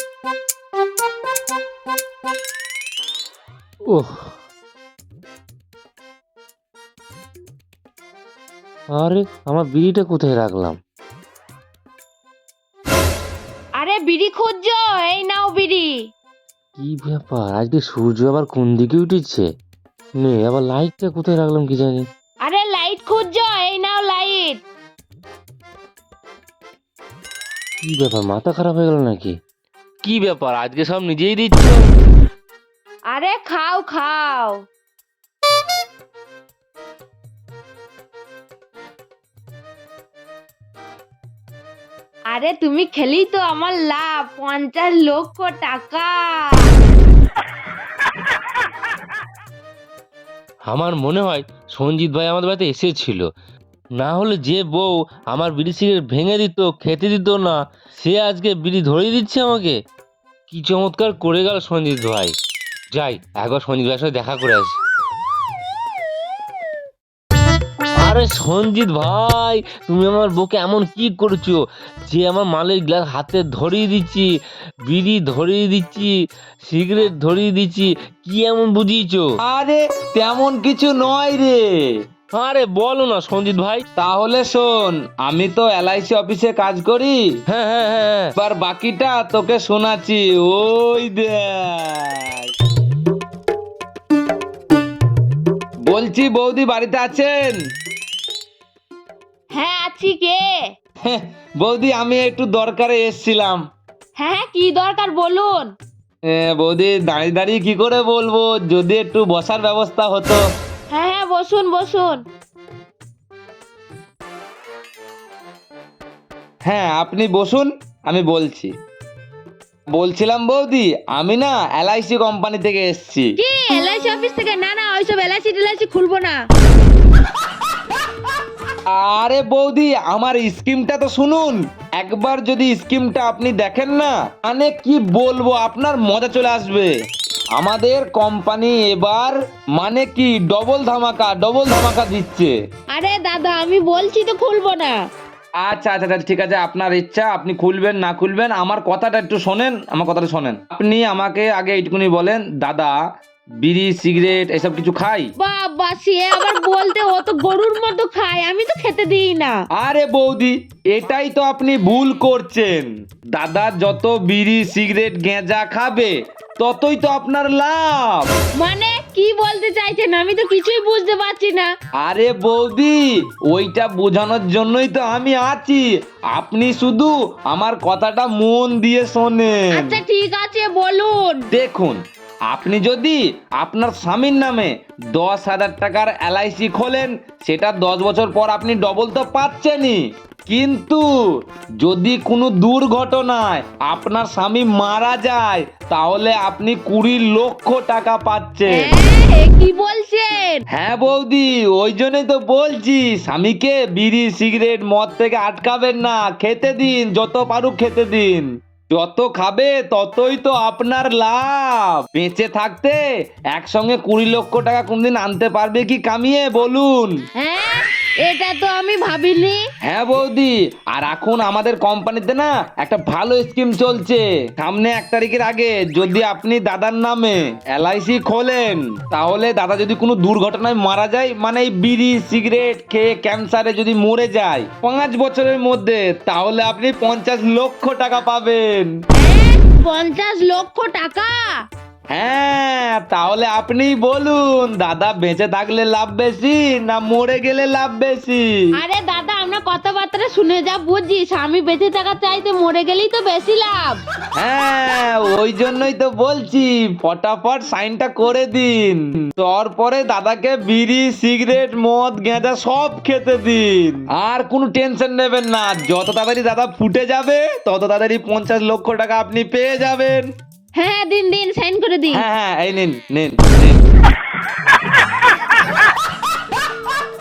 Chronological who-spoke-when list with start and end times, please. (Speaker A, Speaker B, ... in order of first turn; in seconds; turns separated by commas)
Speaker A: 3.9-4.3, Speaker A: 8.9-10.8, Speaker B: 13.8-16.1, Speaker A: 16.8-19.5, Speaker A: 20.2-22.1, Speaker B: 22.4-24.6, Speaker A: 27.8-29.4, Speaker A: 30.0-31.9, Speaker B: 33.1-34.6, Speaker B: 42.3-46.7, Speaker A: 50.6-53.3, Speaker A: 54.0-59.8, Speaker A: 60.5-62.4, Speaker A: 62.9-64.8, Speaker A: 68.0-74.3, Speaker A: 74.9-79.3, Speaker C: 79.4-81.7, Speaker A: 82.3-83.8, Speaker C: 84.0-87.2, Speaker A: 87.5-88.3, Speaker C: 88.4-92.5, Speaker C: 95.8-97.6, Speaker B: 99.5-100.6, Speaker C: 101.0-103.6, Speaker B: 104.2-105.8, Speaker C: 106.3-110.4, Speaker B: 110.9-112.2, Speaker C: 116.7-118.7, Speaker C: 119.9-123.3, Speaker B: 123.4-126.4, Speaker C: 128.9-136.9, Speaker C: 137.5-142.5, Speaker B: 142.9-144.9, Speaker C: 145.6-152.9, Speaker C: 153.6-155.3, Speaker B: 155.4-159.6, Speaker C: 159.8-168.3, Speaker B: 168.6-171.7, Speaker C: 172.0-180.0, Speaker B: 179.7-181.5, Speaker C: 181.5-191.1, Speaker C: 191.8-198.9, Speaker B: 198.7-200.6, Speaker C: 200.7-213.0, Speaker C: 213.5-217.1, Speaker B: 217.4-219.6, Speaker C: 219.8-238.9, Speaker B: 239.2-241.4, Speaker C: 242.1-248.5, Speaker B: 248.8-254.0, Speaker C: 254.4-270.3, Speaker B: 270.8-272.2, Speaker C: 272.1-273.8